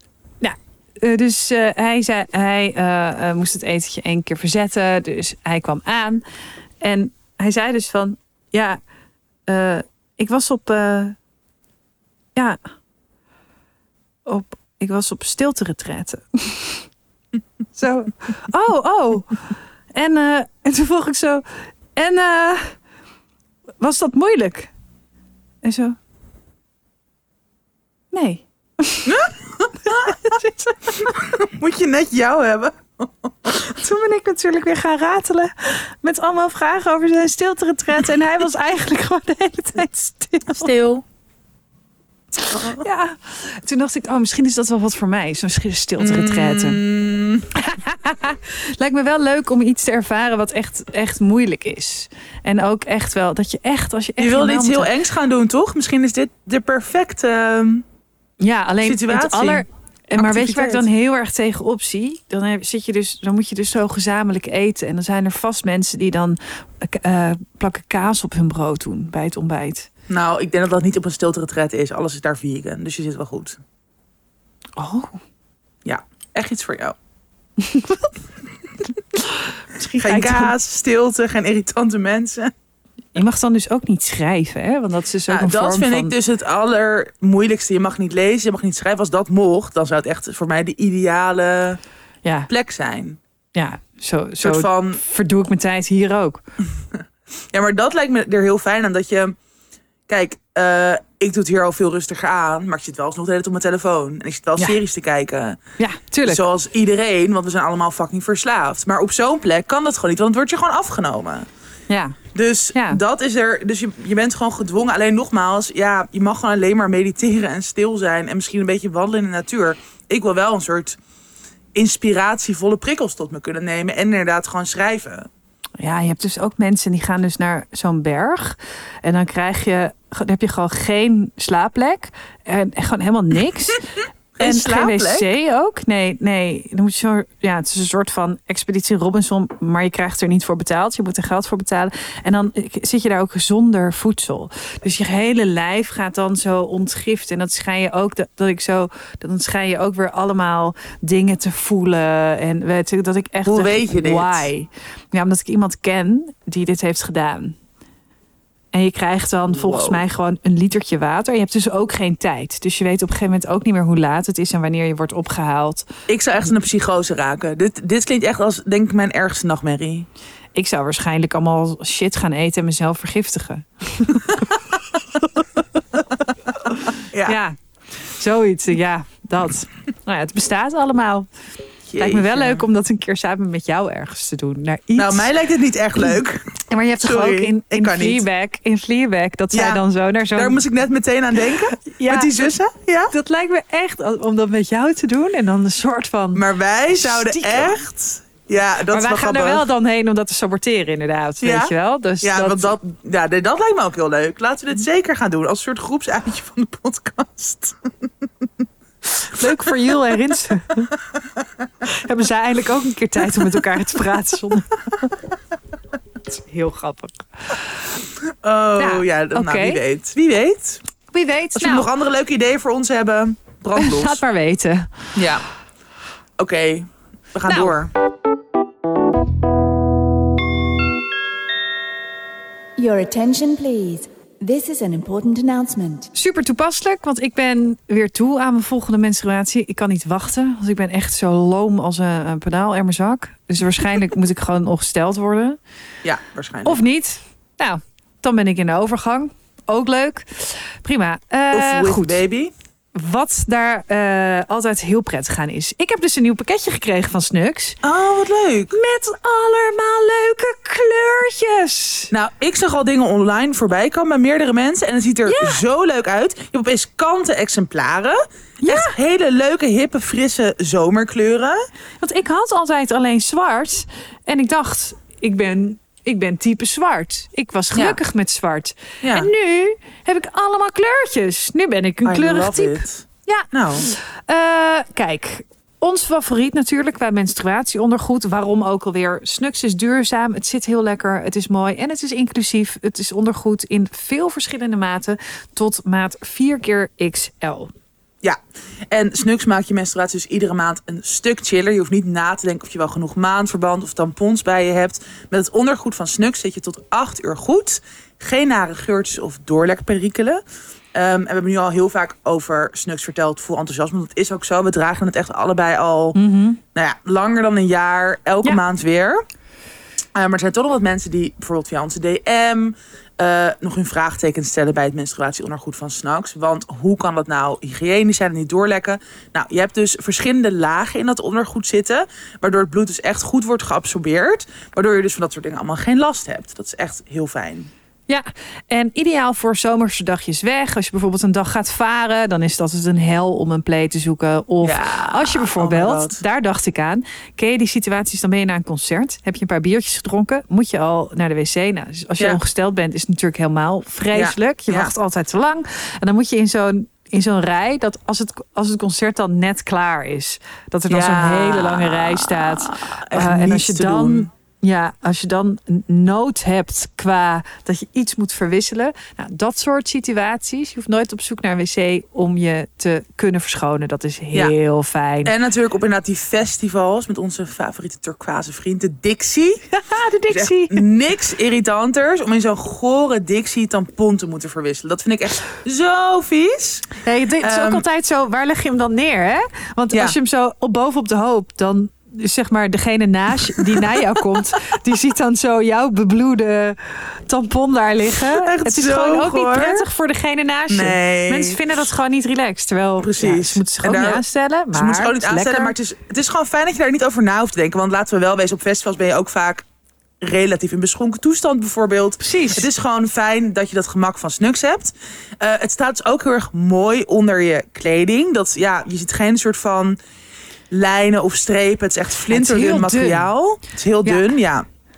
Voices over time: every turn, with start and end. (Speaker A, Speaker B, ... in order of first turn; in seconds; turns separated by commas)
Speaker A: 0.4-6.2, Speaker A: 6.8-8.8, Speaker A: 9.5-11.2, Speaker A: 14.3-16.9, Speaker A: 17.8-19.4, Speaker A: 19.9-22.8, Speaker A: 23.8-24.7, Speaker A: 25.6-26.0, Speaker A: 28.1-29.1, Speaker B: 29.1-30.3, Speaker A: 29.8-31.1, Speaker B: 31.0-33.6, Speaker A: 33.7-40.7, Speaker B: 40.5-41.0, Speaker A: 42.5-46.8, Speaker B: 42.5-42.8, Speaker B: 46.0-47.5, Speaker A: 47.5-54.9, Speaker B: 54.2-57.8, Speaker A: 58.4-69.9, Speaker B: 58.8-60.9, Speaker B: 70.1-73.6, Speaker A: 74.8-75.2, Speaker B: 75.8-77.0, Speaker A: 77.6-78.1, Speaker A: 79.2-80.5, Speaker B: 80.0-82.5, Speaker A: 83.1-86.1, Speaker B: 85.3-91.8, Speaker A: 92.2-92.5, Speaker B: 92.5-93.2, Speaker A: 93.5-96.4, Speaker B: 94.4-95.0, Speaker B: 97.5-99.3, Speaker B: 100.1-105.6, Speaker A: 105.8-106.4, Speaker B: 106.2-111.5, Speaker A: 111.9-112.2, Speaker B: 112.3-121.0, Speaker A: 112.7-113.0, Speaker B: 121.7-125.3, Speaker A: 125.8-133.8, Speaker B: 134.3-135.3, Speaker A: 134.4-157.6, Speaker B: 153.4-154.5, Speaker A: 158.7-165.8, Speaker B: 159.5-160.0, Speaker B: 166.1-170.1, Speaker A: 170.5-174.6, Speaker B: 175.9-177.3, Speaker A: 176.8-181.3, Speaker B: 181.9-182.6, Speaker A: 182.0-185.3, Speaker B: 185.0-186.4, Speaker A: 186.7-190.6, Speaker B: 187.0-188.2, Speaker B: 189.5-189.8, Speaker B: 190.3-193.1, Speaker A: 191.8-192.5, Speaker A: 193.1-197.8, Speaker B: 196.3-199.7, Speaker A: 198.9-202.8, Speaker B: 201.4-208.4, Speaker A: 209.2-210.9, Speaker A: 211.8-215.1, Speaker A: 216.3-217.7, Speaker B: 218.2-220.8, Speaker A: 218.8-219.8, Speaker A: 221.1-221.9, Speaker B: 221.5-224.2, Speaker A: 223.8-225.1, Speaker B: 225.2-225.4, Speaker B: 226.4-227.9, Speaker A: 227.5-227.8, Speaker C: 232.8-236.1, Speaker A: 236.1-245.6, Speaker B: 246.0-246.8, Speaker A: 246.6-252.2, Speaker B: 251.5-252.5, Speaker A: 252.9-257.8, Speaker B: 257.8-258.8, Speaker A: 258.7-262.1, Speaker B: 262.1-271.6, Speaker A: 265.2-265.6, Speaker A: 268.6-268.9, Speaker A: 272.0-297.7, Speaker B: 279.0-279.3, Speaker B: 282.0-283.9, Speaker B: 298.9-310.4, Speaker B: 310.9-316.2, Speaker A: 316.1-316.6, Speaker B: 316.7-319.2, Speaker B: 320.1-337.7, Speaker A: 338.1-375.3, Speaker B: 344.6-346.2, Speaker B: 354.1-354.9, Speaker B: 360.9-364.3, Speaker B: 375.2-379.6, Speaker A: 379.7-380.8, Speaker B: 380.3-387.8, Speaker A: 387.0-405.7, Speaker B: 398.2-399.9, Speaker B: 400.7-401.6, Speaker B: 403.0-409.6, Speaker B: 410.2-420.0, Speaker A: 412.2-412.7, Speaker B: 420.7-424.6, Speaker A: 422.3-423.3, Speaker A: 424.0-424.3